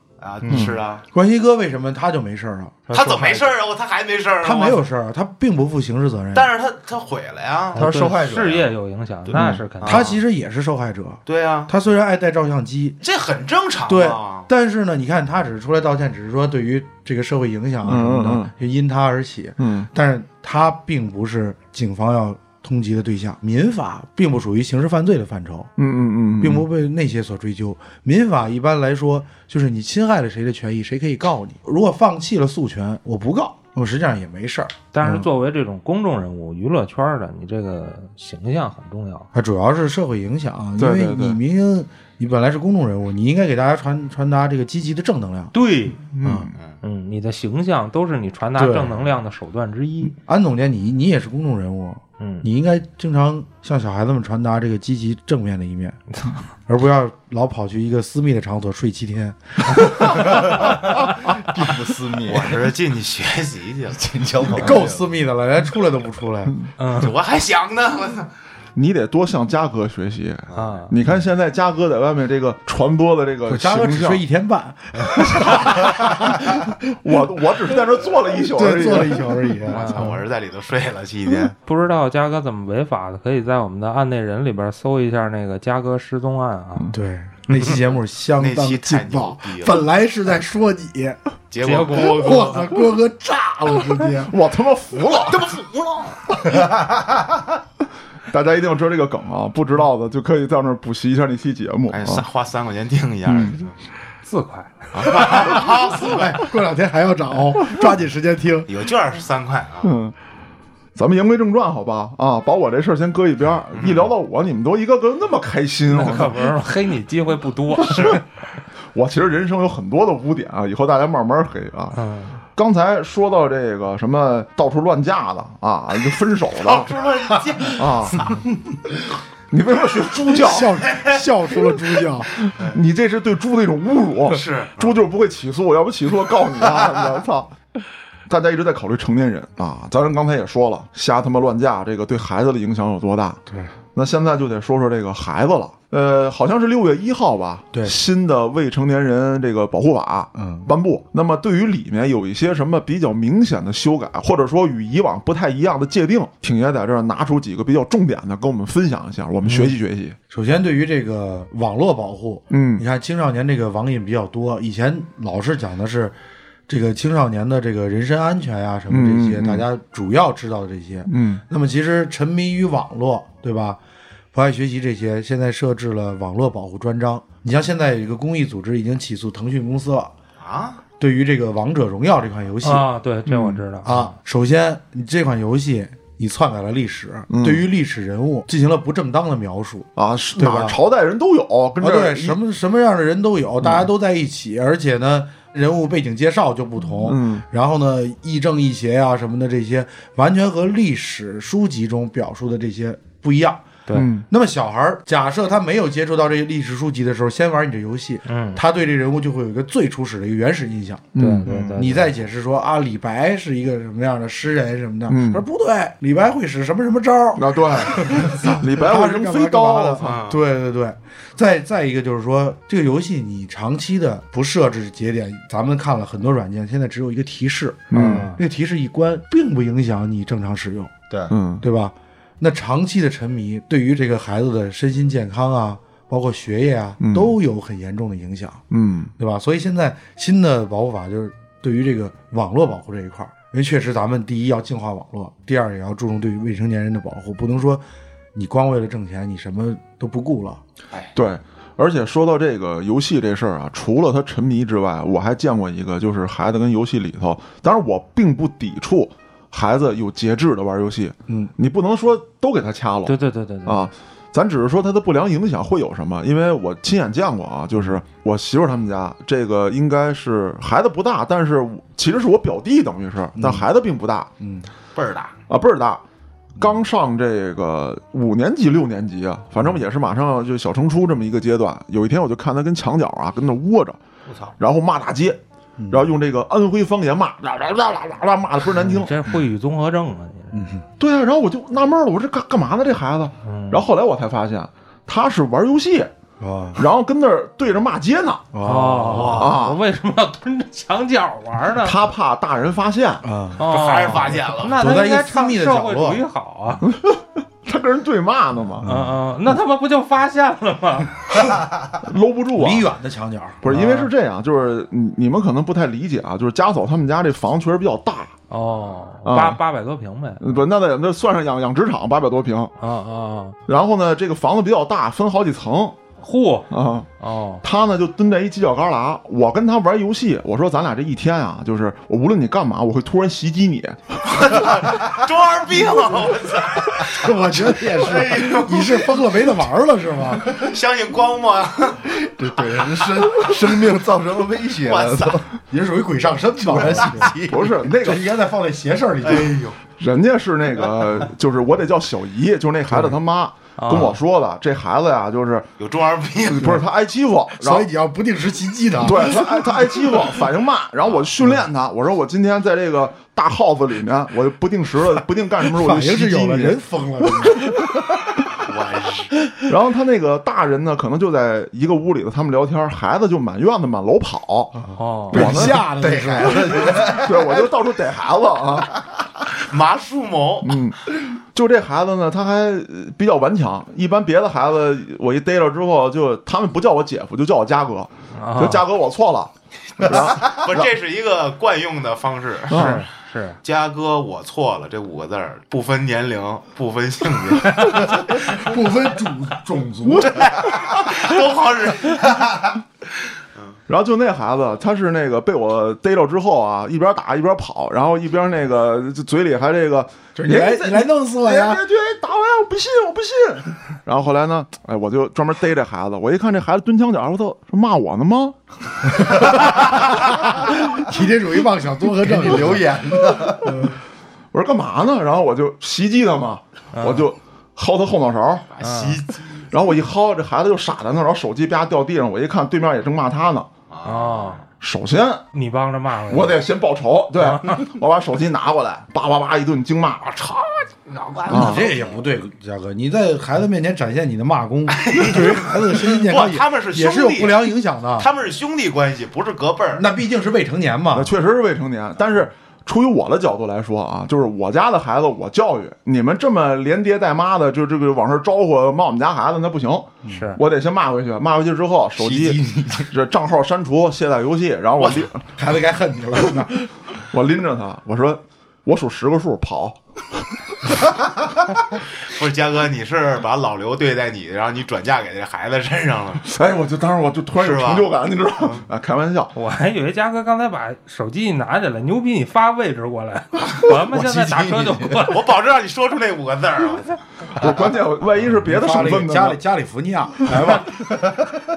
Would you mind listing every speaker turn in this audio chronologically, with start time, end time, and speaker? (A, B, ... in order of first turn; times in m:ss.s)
0:00.2-0:01.0 A
0:00.5-0:00.8 B
0:00.5-0:03.5 C
0:02.9-0:04.8 A
0:02.9-0:03.3 D
0:04.4-0:06.5 C
0:06.3-0:07.9 A
0:07.7-0:08.7 E
0:07.7-0:10.2 D
0:09.2-0:10.2 A
0:09.3-0:09.6 B
0:09.8-0:13.0 C
0:11.2-0:11.7 A
0:13.0-0:14.5 A
0:13.9-0:25.7 C
0:17.8-0:18.5 B
0:19.6-0:19.9 B
0:25.8-0:26.7 B
0:26.4-0:35.3 C
0:34.9-0:39.3 D
0:39.3-0:45.5 C
0:40.8-0:41.4 B
0:45.5-0:46.0 D
0:46.1-0:46.5 B
0:46.2-0:46.5 C
0:46.8-0:50.1 D
0:48.6-0:49.1 C
0:50.2-0:56.0 C
0:52.2-0:52.5 D
0:56.7-1:00.8 C
1:01.2-1:02.7 E
1:02.2-1:04.0 A
1:03.9-1:05.0 E
1:04.5-1:06.6 C
1:06.8-1:07.1 D
1:06.9-1:08.3 A
1:08.8-1:14.2 B
1:10.5-1:10.8 A
1:10.5-1:10.9 D
1:13.5-1:16.8 C
1:15.2-1:16.3 B
1:17.0-1:19.5 B
1:18.5-1:20.2 C
1:19.7-1:21.5 A
1:19.7-1:20.1 D
1:21.6-1:26.9 D
1:26.9-1:31.2 C
1:28.4-1:29.8 A
1:31.5-1:32.7 A
1:31.6-1:32.6 D
1:31.9-1:34.3 C
1:34.2-1:35.6 B
1:35.3-1:36.2 A
1:38.3-1:42.2 B
1:41.9-1:43.7 A
1:43.2-1:43.6 B
1:44.2-1:45.3 D
1:44.9-1:46.4 A
1:45.1-1:48.7 C
1:48.7-1:49.9 A
1:49.8-1:50.1 B
1:51.0-1:56.5 B
1:53.7-1:54.1 A
1:55.9-1:58.2 D
1:57.8-1:58.2 B
1:58.9-2:02.0 B
2:01.9-2:02.4 D
2:02.5-2:06.9 B
2:06.6-2:08.4 A
2:07.8-2:08.2 B
2:09.5-2:10.8 B
2:10.3-2:12.3 C
2:10.9-2:11.2 A
2:12.4-2:12.8 A
2:12.5-2:17.5 B
2:14.3-2:15.0 A
2:18.3-2:23.4 B
2:23.9-2:40.2 B
2:30.4-2:30.7 C
2:39.4-2:39.7 D
2:40.3-2:46.1 C
2:42.5-2:42.8 B
2:46.7-2:53.8 C
2:48.9-2:49.6 B
2:51.1-2:51.4 B
2:54.3-3:00.1 C
3:00.4-3:00.8 A
3:01.0-3:02.9 C
3:02.6-3:04.1 D
3:03.3-3:03.6 B
3:03.8-3:10.8 C
3:07.3-3:07.6 B
3:10.0-3:12.4 B
3:11.8-3:23.7 C
3:13.6-3:13.9 B
3:16.9-3:17.4 B
3:23.9-3:24.2 B
3:24.3-3:50.9 C
3:28.3-3:28.6 D
3:31.1-3:31.9 B
3:31.2-3:32.1 D
3:35.1-3:35.4 B
3:37.3-3:40.2 B
3:40.0-3:40.4 A
3:47.9-3:48.3 B
3:47.9-3:48.4 D
3:51.3-3:51.6 B
3:51.6-3:58.6 C
3:57.0-3:57.3 B
3:58.7-3:59.1 B
3:59.2-4:07.8 C
4:08.3-4:10.6 C
4:11.1-4:34.3 B
4:23.0-4:23.9 D
4:33.4-4:33.7 C
4:34.4-4:34.7 C
4:34.9-4:35.3 A
4:35.5-4:36.0 B
4:36.6-4:44.0 B
4:44.3-4:44.5 A
4:44.6-4:49.2 B
4:45.8-4:46.1 C
4:48.9-4:50.6 D
4:50.5-4:50.8 C
4:51.0-4:56.1 B
4:53.4-4:53.8 D
4:56.4-4:56.8 C
4:56.7-4:58.5 B
4:58.5-4:59.5 C
4:58.6-5:02.0 D
4:59.1-4:59.5 A
4:59.3-4:59.8 B
5:01.8-5:03.2 B
5:03.2-5:06.2 C
5:03.6-5:06.8 D
5:03.6-5:04.8 A
5:06.8-5:08.9 B
5:08.8-5:11.6 D
5:08.8-5:09.2 C
5:12.0-5:12.9 B
5:12.5-5:13.6 C
5:13.6-5:18.3 B
5:13.6-5:14.1 D
5:18.5-5:20.5 D
5:19.2-5:19.6 B
5:20.4-5:22.7 B
5:22.8-5:23.6 D
5:23.7-5:26.0 B
5:26.2-5:27.6 D
5:26.7-5:27.1 B
5:27.6-5:34.7 B
5:34.2-5:39.2 A
5:37.0-5:40.5 C
5:40.4-5:42.1 A
5:42.1-5:45.5 E
5:44.8-5:45.4 A
5:45.7-5:47.4 C
5:46.6-5:47.7 E
5:47.5-5:48.3 B
5:47.9-5:49.6 C
5:49.2-5:49.8 A
5:50.0-5:55.7 B
5:53.8-5:54.2 D
5:55.8-5:56.8 A
5:56.5-5:57.9 B
5:57.6-5:59.7 C
5:59.0-6:07.7 B
6:01.0-6:01.3 A
6:05.7-6:08.4 C
6:08.6-6:09.3 A
6:09.6-6:14.8 B
6:14.8-6:17.0 C
6:15.0-6:15.7 D
6:15.3-6:15.8 B
6:15.9-6:17.5 E
6:17.1-6:18.9 B
6:19.5-6:20.8 A
6:20.6-6:30.9 B
6:28.4-6:28.8 D
6:30.1-6:33.0 A
6:32.7-6:33.0 B
6:32.7-6:33.6 D
6:33.6-6:38.2 A
6:38.0-6:40.5 C
6:40.3-6:42.3 A
6:43.9-6:58.6 B
6:50.4-6:51.8 C
6:59.1-6:59.4 B
6:59.2-7:02.9 C
7:02.2-7:03.8 E
7:03.7-7:04.0 C
7:04.5-7:08.7 B
7:06.9-7:07.3 D
7:08.7-7:09.7 A
7:08.8-7:09.2 D
7:09.7-7:13.7 B
7:13.9-7:14.6 A
7:14.0-7:14.6 D
7:14.8-7:15.4 B
7:15.5-7:16.6 D
7:16.3-7:20.3 B
7:17.4-7:17.8 D
7:20.2-7:22.2 A
7:21.5-7:28.3 C
7:21.5-7:21.9 B
7:24.9-7:30.0 A
7:29.9-7:31.3 C
7:31.1-7:45.5 B
7:40.3-7:40.6 D
7:42.2-7:43.1 E
7:45.0-7:45.3 A
7:45.6-7:46.8 C
7:47.3-7:51.1 B
7:52.2-7:56.5 A
7:56.4-7:59.5 B
7:57.5-7:58.8 A
7:59.5-8:05.4 D
8:04.1-8:05.3 E
8:05.2-8:07.2 A
8:07.5-8:09.6 B
8:08.5-8:11.5 C